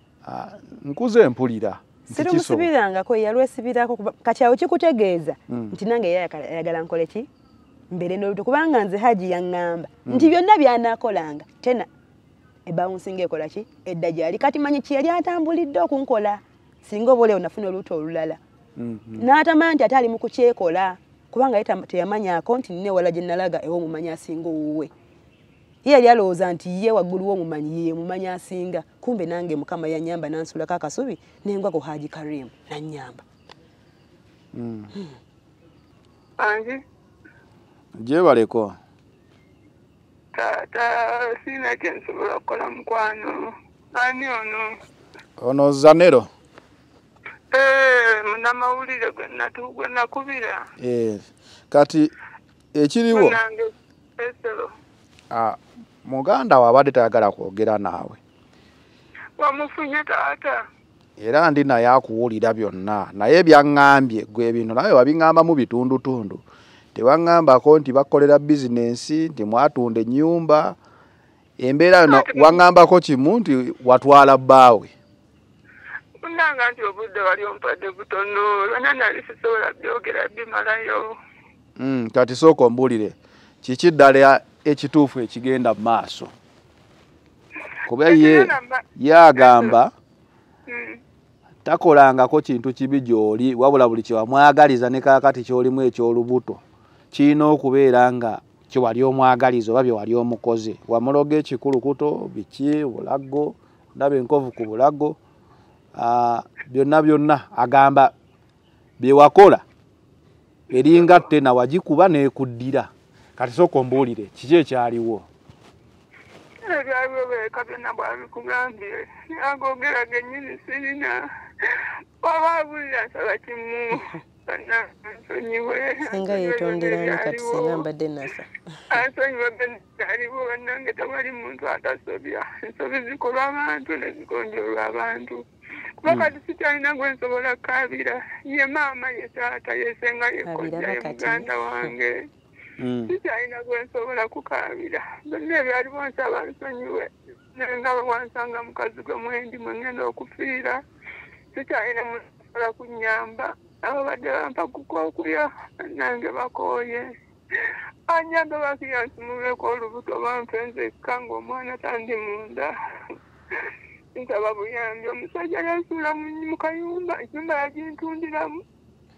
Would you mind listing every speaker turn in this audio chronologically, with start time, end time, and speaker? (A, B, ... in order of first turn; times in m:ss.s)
0:00.2-0:02.7 A
0:02.1-0:07.3 B
0:07.9-0:11.9 B
0:10.1-0:10.3 A
0:12.7-0:18.4 B
0:18.8-0:19.3 A
0:19.2-0:24.9 B
0:25.8-0:33.2 B
0:34.5-0:34.9 A
0:36.4-0:36.8 C
0:38.0-0:38.8 A
0:40.3-0:44.8 C
0:45.4-0:46.3 A
0:47.5-0:50.7 C
0:50.8-0:52.1 A
0:52.7-0:53.4 A
0:53.1-0:54.7 C
0:55.3-0:58.2 A
0:59.4-1:00.6 C
1:01.2-1:06.4 A
1:07.0-1:10.8 A
1:11.6-1:14.9 A
1:12.1-1:12.6 C
1:16.2-1:21.2 C
1:21.8-1:26.3 A
1:27.9-1:29.9 A
1:28.1-1:28.8 C
1:29.4-1:29.8 C
1:30.7-1:31.0 C
1:31.6-1:36.6 A
1:37.1-1:45.2 A
1:46.0-1:48.1 A
1:49.0-1:49.6 A
1:50.7-1:55.3 A
1:50.7-1:51.3 C
1:56.6-2:07.8 C
2:06.0-2:08.5 B
2:08.9-2:15.4 C
2:16.0-2:22.3 C
2:16.1-2:16.4 A
2:20.4-2:21.9 B
2:22.8-2:23.2 A
2:23.1-2:30.8 C
2:31.5-2:37.1 C
2:37.6-2:48.6 C